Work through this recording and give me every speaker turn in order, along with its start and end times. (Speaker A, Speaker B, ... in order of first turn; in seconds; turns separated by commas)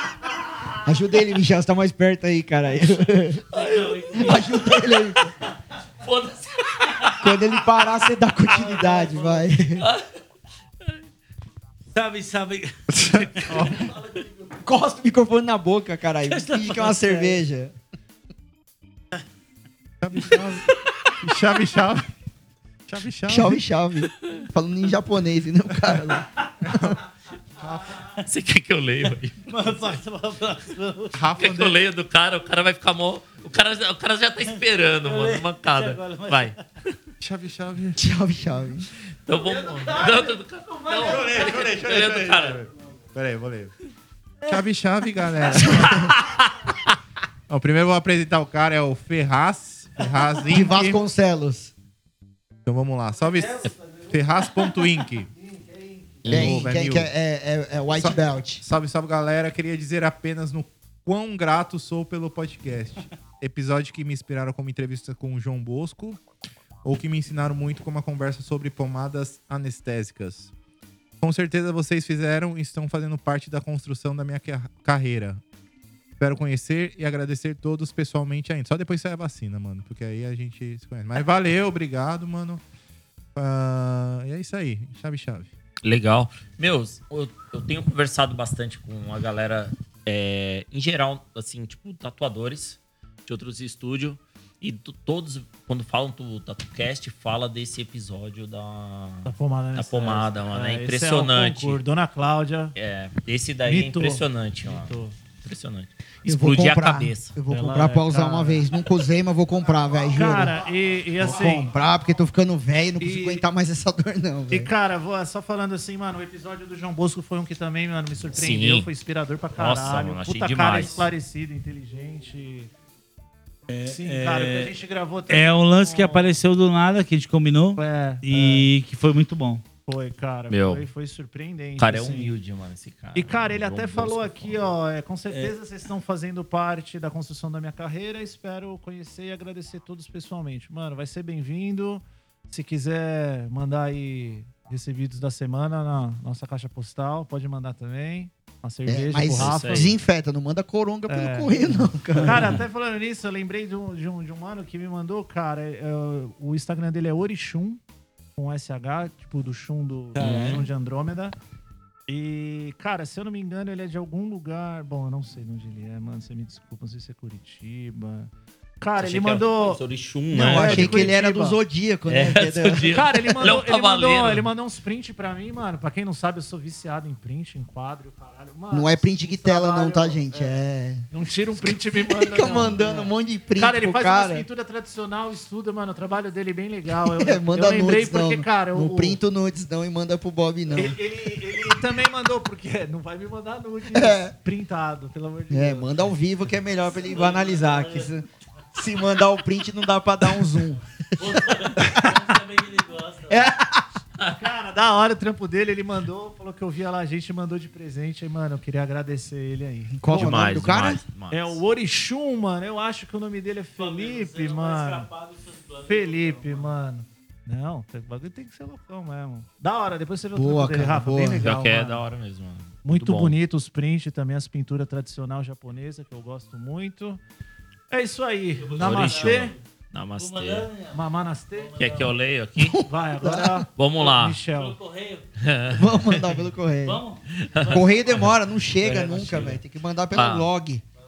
Speaker A: 0.8-3.4, Speaker B: 3.5-5.0, Speaker C: 3.5-4.7, Speaker A: 4.2-5.3, Speaker B: 6.0-7.9, Speaker A: 7.2-9.9, Speaker C: 8.7-9.4, Speaker B: 9.8-10.1, Speaker C: 11.9-14.2, Speaker D: 12.9-13.9, Speaker A: 14.6-17.7, Speaker C: 16.3-17.4, Speaker D: 20.0-20.7, Speaker D: 21.2-22.1, Speaker D: 22.9-23.6, Speaker A: 23.3-26.2, Speaker D: 26.6-27.0, Speaker D: 27.6-28.0, Speaker B: 28.2-29.4, Speaker C: 29.5-31.2, Speaker D: 31.1-31.8, Speaker B: 31.4-36.9, Speaker C: 35.0-36.6, Speaker D: 37.2-38.0, Speaker A: 38.0-38.9, Speaker B: 39.2-42.6, Speaker D: 40.9-43.7, Speaker D: 44.5-46.2, Speaker A: 45.5-46.1, Speaker B: 46.1-46.9, Speaker D: 47.5-51.0, Speaker A: 50.4-51.7, Speaker D: 52.6-55.3, Speaker E: 53.2-56.3, Speaker D: 56.2-57.1, Speaker A: 56.2-58.6, Speaker D: 58.0-66.2, Speaker D: 66.8-70.5, Speaker D: 71.2-75.4, Speaker D: 76.2-82.6, Speaker D: 83.3-85.5, Speaker B: 85.8-101.8, Speaker E: 99.2-102.7, Speaker B: 102.8-107.3, Speaker E: 103.7-105.1, Speaker A: 106.2-110.6, Speaker E: 107.5-108.7, Speaker E: 110.1-111.7, Speaker A: 111.2-114.7, Speaker E: 113.0-113.4, Speaker E: 114.5-122.7, Speaker B: 118.3-118.9, Speaker B: 119.6-121.1, Speaker C: 123.7-124.7, Speaker E: 123.9-126.4, Speaker C: 125.3-129.6, Speaker E: 127.8-128.7, Speaker E: 129.9-132.3, Speaker B: 130.5-130.8, Speaker B: 131.8-134.6, Speaker E: 133.1-149.9, Speaker A: 148.9-152.6, Speaker B: 149.3-149.9, Speaker E: 151.1-157.8, Speaker C: 152.2-152.5, Speaker E: 158.4-161.3, Speaker C: 160.2-160.6, Speaker B: 160.2-160.7, Speaker E: 162.1-171.6, Speaker B: 169.0-171.1, Speaker A: 170.4-173.5, Speaker B: 172.1-174.5, Speaker E: 172.9-189.2, Speaker A: 178.7-181.1, Speaker A: 181.6-184.4, Speaker A: 187.1-191.0, Speaker E: 190.7-196.1, Speaker A: 193.9-194.3, Speaker A: 195.5-200.8, Speaker C: 197.0-198.1, Speaker C: 201.2-203.5, Speaker E: 201.8-202.4, Speaker E: 204.3-210.6, Speaker A: 209.9-211.0, Speaker B: 210.1-211.6, Speaker E: 211.3-215.1, Speaker C: 213.8-216.7, Speaker E: 215.9-222.0, Speaker A: 220.3-221.5, Speaker B: 221.4-223.4, Speaker E: 222.8-227.2, Speaker E: 227.9-229.5, Speaker C: 228.6-229.6, Speaker B: 228.8-230.7, Speaker C: 230.2-231.0, Speaker E: 230.9-231.8, Speaker C: 231.6-232.1, Speaker B: 231.8-232.8, Speaker A: 232.6-233.6, Speaker E: 232.8-234.8, Speaker B: 233.8-234.4, Speaker C: 234.5-235.3, Speaker B: 235.4-236.4, Speaker A: 235.7-237.0, Speaker C: 236.8-237.8, Speaker B: 237.3-237.8, Speaker A: 237.7-240.8, Speaker C: 238.8-239.6, Speaker B: 240.1-240.5